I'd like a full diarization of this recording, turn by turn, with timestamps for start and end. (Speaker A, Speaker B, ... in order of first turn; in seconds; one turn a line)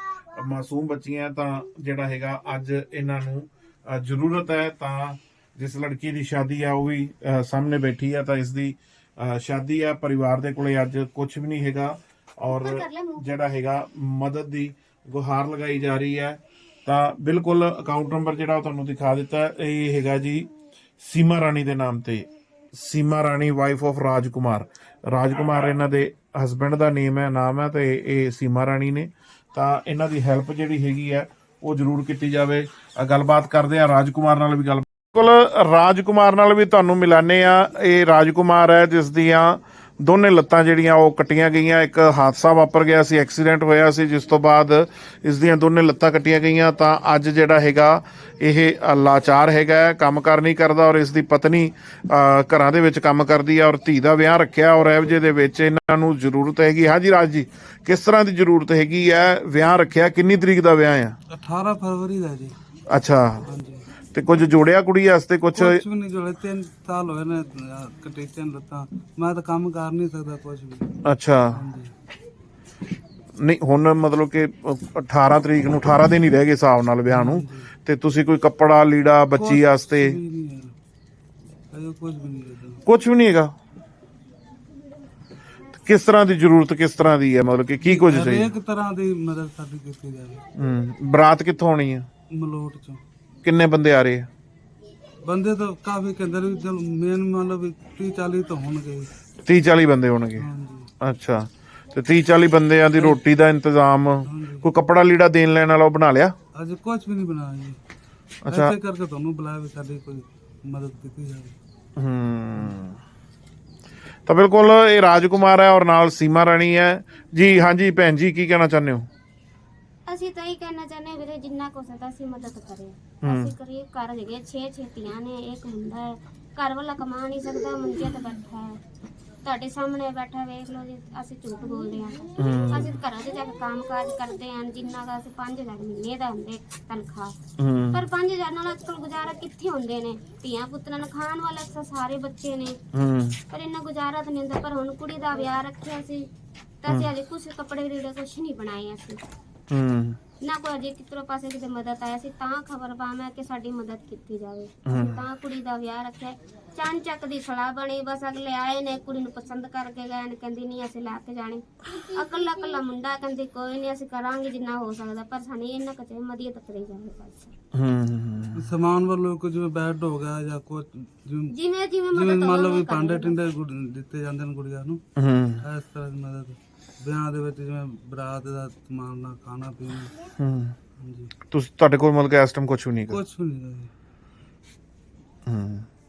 Speaker A: 0.3-61.2
Speaker B: 12.4-13.2
Speaker C: 61.3-62.5
Speaker A: 62.9-63.5
Speaker C: 63.4-63.9
Speaker A: 64.1-65.8
Speaker C: 65.5-70.9
Speaker A: 71.0-71.6
Speaker C: 71.5-71.9
Speaker A: 73.3-80.2
Speaker C: 77.1-77.7
Speaker C: 79.3-80.7
Speaker C: 81.7-82.8
Speaker A: 82.8-83.5
Speaker A: 85.8-88.5
Speaker C: 87.8-90.4
Speaker A: 90.5-92.1
Speaker C: 92.3-93.0
Speaker A: 93.4-94.3
Speaker C: 95.2-99.1
Speaker A: 99.4-100.5
Speaker C: 100.4-100.9
Speaker A: 101.0-106.3
Speaker C: 104.2-104.7
Speaker C: 106.5-107.8
Speaker A: 108.4-108.7
Speaker C: 108.5-111.5
Speaker A: 112.0-113.0
Speaker A: 114.2-119.1
Speaker B: 120.1-128.8
Speaker A: 123.2-123.5
Speaker B: 129.4-137.4
Speaker A: 132.4-132.9
Speaker A: 137.6-138.1
Speaker B: 137.9-142.8
Speaker A: 142.9-143.4
Speaker B: 143.5-146.3
Speaker B: 146.8-149.2
Speaker A: 149.7-150.2
Speaker B: 150.4-167.5
Speaker A: 154.8-155.2
Speaker A: 167.7-168.7
Speaker C: 168.6-171.5
Speaker B: 171.5-173.4
Speaker C: 172.1-175.0
Speaker A: 175.2-175.6
Speaker C: 175.6-180.1
Speaker A: 180.3-180.8
Speaker C: 181.0-181.3
Speaker A: 181.5-183.2
Speaker C: 183.1-183.9
Speaker A: 185.4-185.9